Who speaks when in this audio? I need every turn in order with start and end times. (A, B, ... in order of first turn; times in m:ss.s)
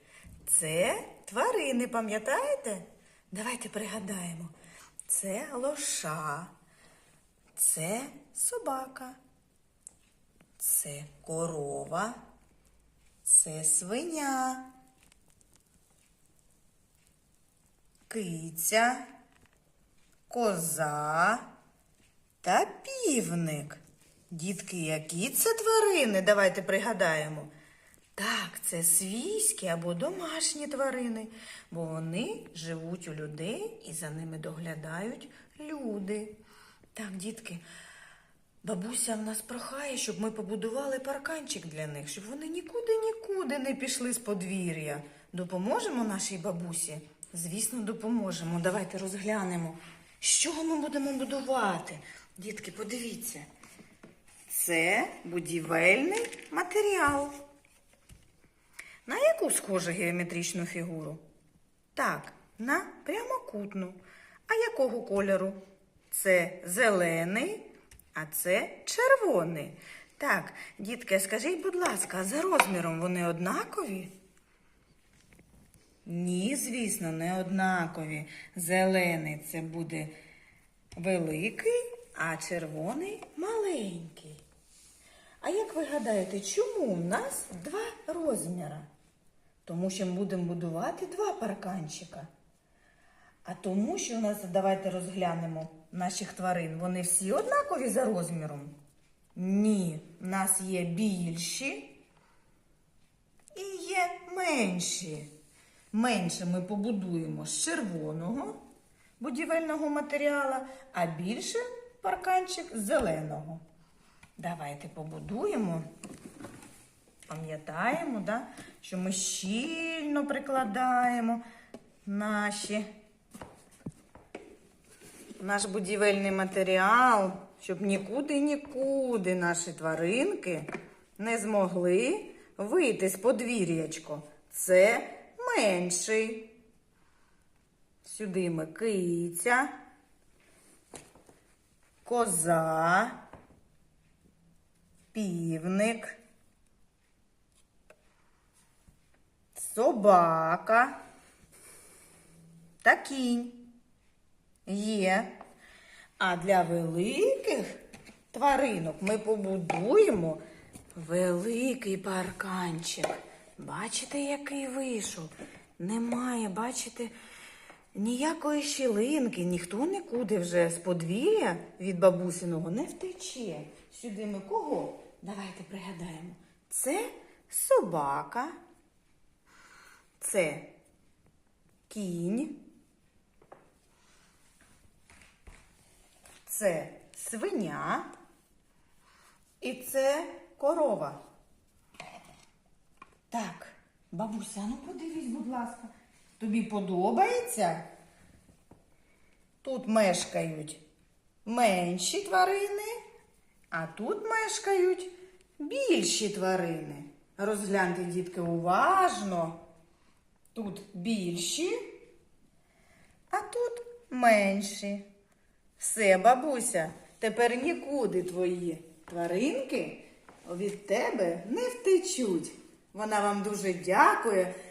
0:00.4-0:04.5 A
0:05.0-0:06.5 A
0:07.6-0:09.2 A
0:10.6-0:12.2 A
0:13.2-0:14.7 A
0:18.1-0:19.0 A
0:20.3-0:21.5 A
0:22.4-0:27.5 A
0:28.2-0:36.3 A
0:36.9-0:37.6 A
0:38.6-0:53.5 A
0:54.5-0:57.4 A
0:59.0-1:01.2 A
1:01.9-1:05.6 A
1:06.1-1:14.1 A
1:16.0-1:20.1 A
1:21.0-1:24.4 A
1:25.4-1:28.9 A
1:29.6-1:32.3 A
1:33.4-1:38.7 A
1:39.3-1:42.0 A
1:43.5-1:45.3 A
1:45.9-1:48.6 A
1:49.2-1:53.6 A
1:54.4-1:55.9 A
1:57.3-2:01.4 A
2:02.0-2:02.8 A
2:05.4-2:16.5 A
2:18.0-2:19.7 A
2:22.0-2:23.2 A
2:25.1-2:26.2 A
2:29.5-2:31.0 A
2:32.8-2:33.7 A
2:34.6-2:35.4 A
2:36.2-2:37.8 A
2:38.3-2:40.4 A
2:40.9-2:47.1 A
2:47.9-2:58.5 A
3:00.2-3:00.7 A
3:01.9-3:02.6 A
3:06.4-3:08.1 A
3:09.6-3:11.2 A
3:13.3-3:17.8 A
3:19.6-3:20.8 A
3:21.4-3:23.0 A
3:23.7-3:29.6 A
3:30.5-3:31.7 A
3:33.3-3:35.0 A
3:35.8-3:44.5 A